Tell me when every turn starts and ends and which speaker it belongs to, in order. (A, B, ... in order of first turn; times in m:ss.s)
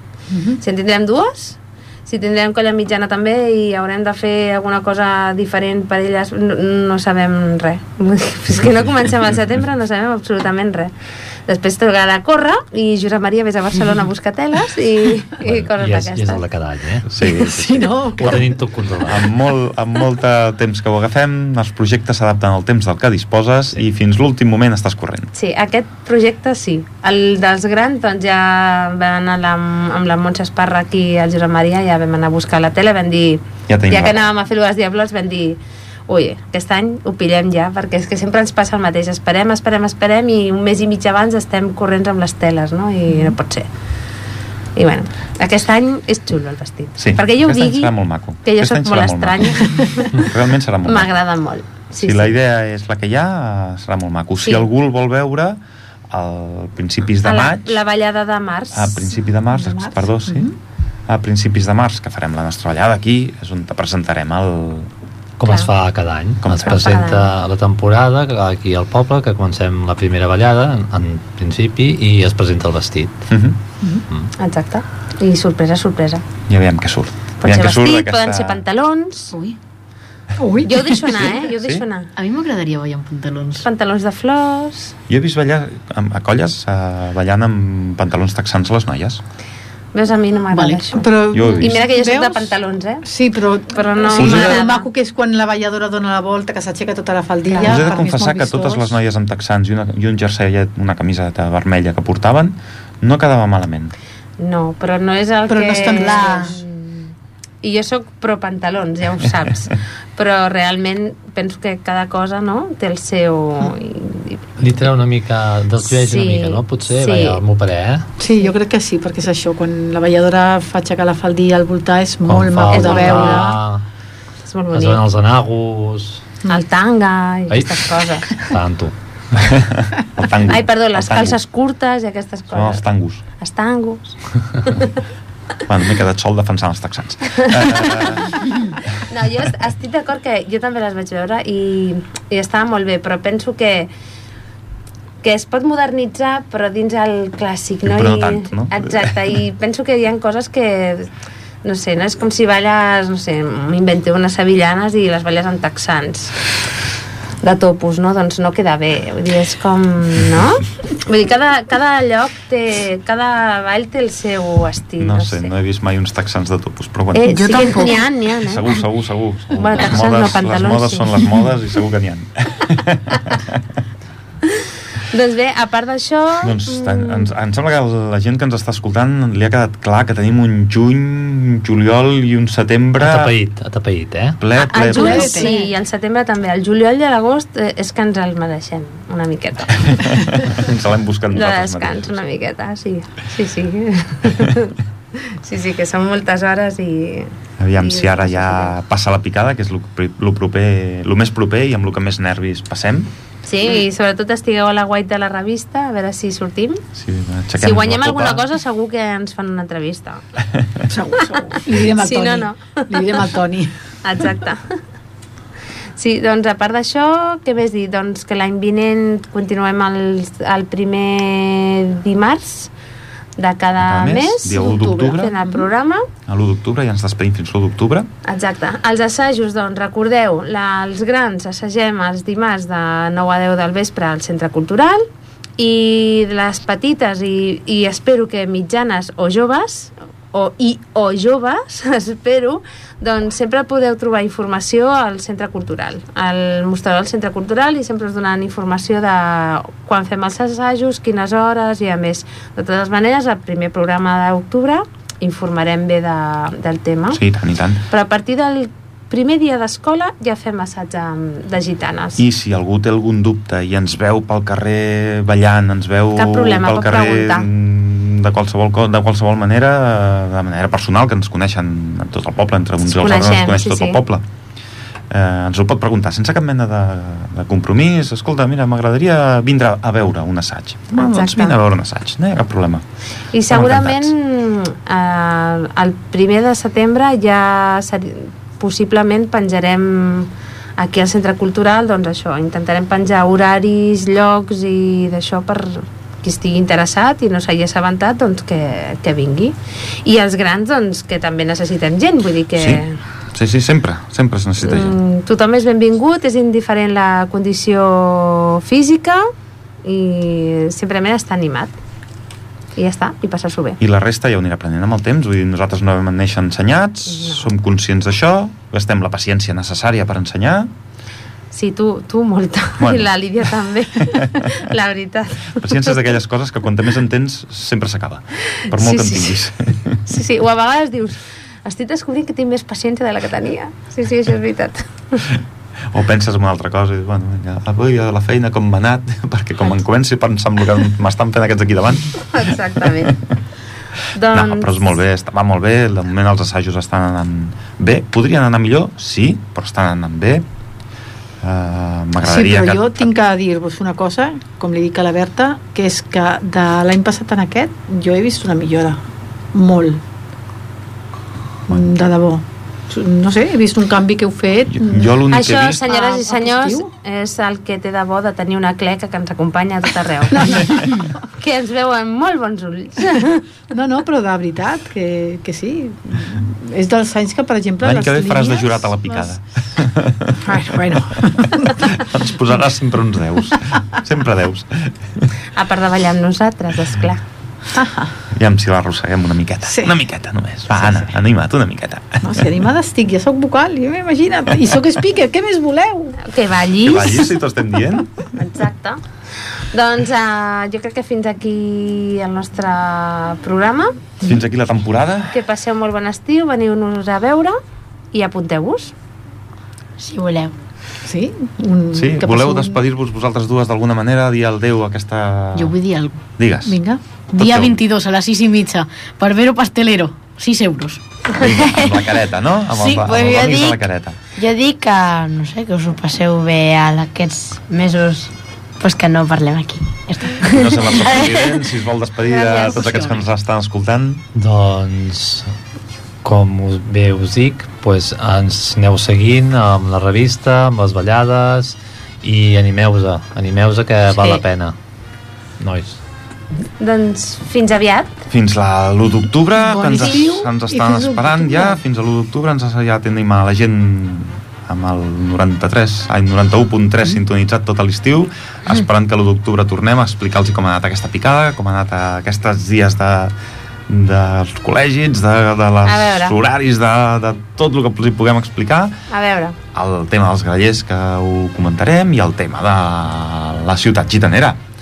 0:00.3-0:00.6 A
0:00.6-0:10.9 B
0:11.5-0:16.4 B
0:15.4-0:17.1 C
0:17.1-0:18.5 D
0:17.2-0:18.6 A
0:18.2-0:19.2 C
0:19.0-0:25.3 D
0:25.4-0:43.7 B
0:33.7-0:34.2 D
0:44.8-0:47.9 B
0:47.0-0:51.1 D
0:48.4-0:50.4 B
0:50.9-0:52.3 B
0:52.0-0:57.8 D
0:57.2-0:59.1 B
0:58.7-1:00.5 D
0:59.5-1:00.6 A
1:01.1-1:04.9 D
1:05.4-1:13.3 C
1:06.4-1:07.0 D
1:06.6-1:07.3 B
1:13.3-1:13.6 D
1:14.4-1:16.2 B
1:16.5-1:18.6 D
1:17.4-1:19.3 B
1:19.3-1:19.6 E
1:20.4-1:21.0 A
1:20.6-1:22.1 B
1:21.2-1:21.9 D
1:22.2-1:23.7 E
1:23.6-1:25.0 B
1:25.1-1:29.2 D
1:29.9-1:33.0 B
1:30.5-1:30.8 E
1:30.9-1:32.5 A
1:31.3-1:31.8 D
1:33.0-1:39.0 A
1:33.7-1:34.9 B
1:34.1-1:34.6 D
1:37.5-1:37.9 B
1:37.6-1:43.9 D
1:44.4-1:47.1 B
1:45.4-1:46.6 A
1:47.6-1:54.4 B
1:54.6-1:58.1 C
1:55.9-1:57.4 B
1:58.2-2:03.6 A
2:02.3-2:03.8 C
2:02.7-2:03.6 B
2:04.4-2:05.0 B
2:04.7-2:06.2 C
2:06.5-2:08.4 B
2:07.5-2:08.9 C
2:09.4-2:11.4 D
2:10.5-2:12.8 B
2:12.5-2:13.2 D
2:13.4-2:15.0 B
2:15.7-2:18.4 D
2:17.4-2:18.0 B
2:19.1-2:23.9 B
2:25.2-2:31.1 B
2:27.9-2:29.1 D
2:31.6-2:36.4 B
2:37.4-2:45.5 B
2:45.0-2:47.6 D
2:47.1-2:48.8 B
2:47.2-2:48.0 F
2:48.4-2:53.6 D
2:49.5-2:51.3 B
2:54.5-2:57.3 B
2:56.4-3:03.4 D
3:03.0-3:04.4 C
3:04.4-3:05.5 D
3:04.6-3:10.5 B
3:04.8-3:05.7 A
3:09.9-3:12.2 D
3:11.3-3:18.8 B
3:17.6-3:23.1 D
3:23.5-3:26.8 B
3:27.0-3:28.5 D
3:27.6-3:30.2 B
3:30.9-3:33.7 A
3:31.2-3:33.3 B
3:34.0-3:34.7 B
3:36.0-3:42.7 B
3:43.4-3:46.1 B
3:43.8-3:45.4 D
3:44.6-3:44.9 A
3:46.3-3:48.1 D
3:48.2-3:55.1 B
3:55.6-4:17.2 B
4:17.1-4:17.8 D
4:17.9-4:22.2 B
4:22.2-4:34.2 D
4:26.2-4:27.5 B
4:32.8-4:34.0 B
4:35.1-4:42.8 D
4:40.9-4:41.6 B
4:43.3-5:03.0 B
4:43.5-4:44.1 D
5:02.6-5:05.0 D
5:04.6-5:09.3 B
5:09.8-5:11.7 B
5:12.8-5:13.8 B
5:13.8-5:20.7 D
5:17.1-5:17.5 B
5:21.5-5:26.1 B
5:22.8-5:23.1 D
5:24.1-5:24.5 D
5:25.6-5:30.0 D
5:28.6-5:29.4 B
5:30.1-5:35.3 B
5:35.9-5:43.1 D
5:42.3-5:43.2 B
5:44.1-5:44.9 B
5:44.3-5:50.4 D
5:51.4-5:53.1 D
5:52.2-5:59.0 A
5:59.5-6:00.0 A
6:01.7-6:05.2 A
6:04.7-6:05.8 D
6:05.3-6:13.4 B
6:05.9-6:06.9 A
6:10.3-6:11.2 A
6:13.7-6:19.4 A
6:17.8-6:25.3 D
6:20.4-6:22.0 A
6:25.6-6:27.2 B
6:27.7-6:28.1 A
6:28.3-6:32.5 D
6:29.7-6:30.0 A
6:32.2-6:36.2 A
6:36.2-6:37.4 B
6:36.8-6:38.1 D
6:38.4-6:39.0 B
6:39.7-6:44.0 B
6:44.2-6:45.4 D
6:45.3-6:47.6 B
6:48.1-6:48.9 B
6:50.0-6:50.5 F
6:51.0-6:52.8 A
6:51.9-6:55.8 D
6:55.6-6:56.2 E
6:56.4-6:56.8 D
6:56.6-6:57.0 A
6:57.3-7:01.1 E
6:57.4-6:57.8 D
7:01.3-7:04.2 D
7:01.4-7:02.0 F
7:02.7-7:03.8 F
7:04.4-7:11.6 F
7:10.4-7:14.2 D
7:12.4-7:12.8 B
7:14.4-7:15.5 C
7:16.2-7:24.8 C
7:25.6-7:26.0 C
7:26.8-7:28.2 B
7:28.3-7:43.3 D
7:29.6-7:31.8 A
7:43.9-7:49.0 D
7:45.9-7:46.4 B
7:49.1-7:49.6 B
7:49.7-7:54.6 D